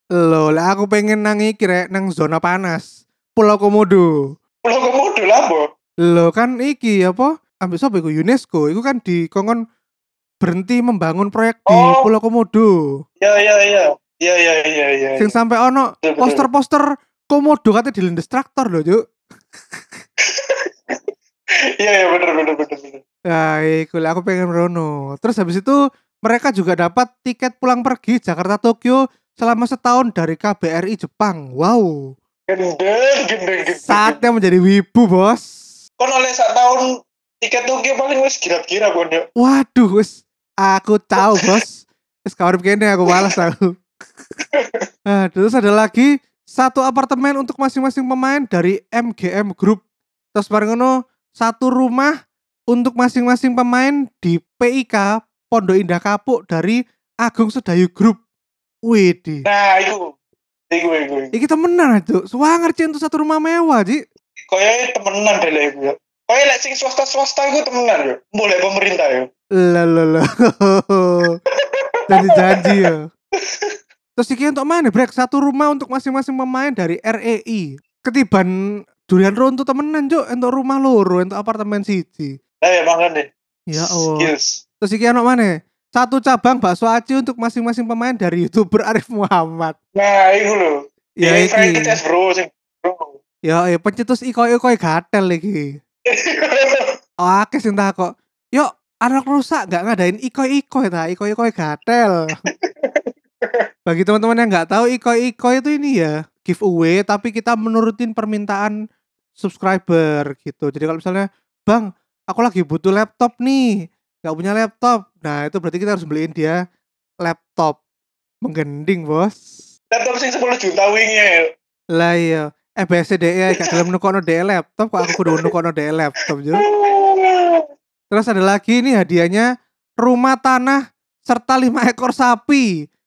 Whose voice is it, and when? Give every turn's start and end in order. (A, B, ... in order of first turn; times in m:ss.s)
0:00.2-0:04.1 A
0:04.6-0:05.6 B
0:06.0-0:09.6 A
0:10.4-0:12.7 A
0:11.7-0:12.1 B
0:13.2-0:15.4 B
0:15.2-0:19.0 A
0:16.0-0:16.5 B
0:20.2-0:21.0 B
0:21.8-0:23.0 B
0:23.3-0:32.0 A
0:32.5-0:34.2 B
0:33.8-0:35.5 A
0:36.0-0:36.9 B
0:37.4-0:39.3 B
0:39.4-0:43.7 A
0:43.1-0:43.4 B
0:44.5-0:44.8 B
0:45.1-0:49.8 A
0:50.3-0:52.1 A
0:52.7-0:58.2 A
0:58.9-0:59.5 A
0:59.5-1:00.1 B
1:00.7-1:01.4 B
1:01.3-1:04.0 A
1:04.5-1:09.3 B
1:09.6-1:11.4 A
1:11.5-1:12.9 B
1:12.1-1:13.0 A
1:13.4-1:13.8 B
1:14.2-1:22.4 A
1:22.6-1:24.6 B
1:23.7-1:29.8 A
1:30.0-1:33.2 B
1:31.2-1:32.0 A
1:33.5-1:35.7 A
1:36.1-1:36.9 B
1:37.2-1:42.4 A
1:42.5-1:43.6 B
1:43.9-1:48.8 A
1:49.4-1:56.6 A
1:57.2-1:57.8 A
1:58.4-1:59.6 A
1:59.9-2:01.4 B
2:02.0-2:06.6 A
2:05.1-2:05.5 B
2:06.6-2:07.6 B
2:08.1-2:12.7 A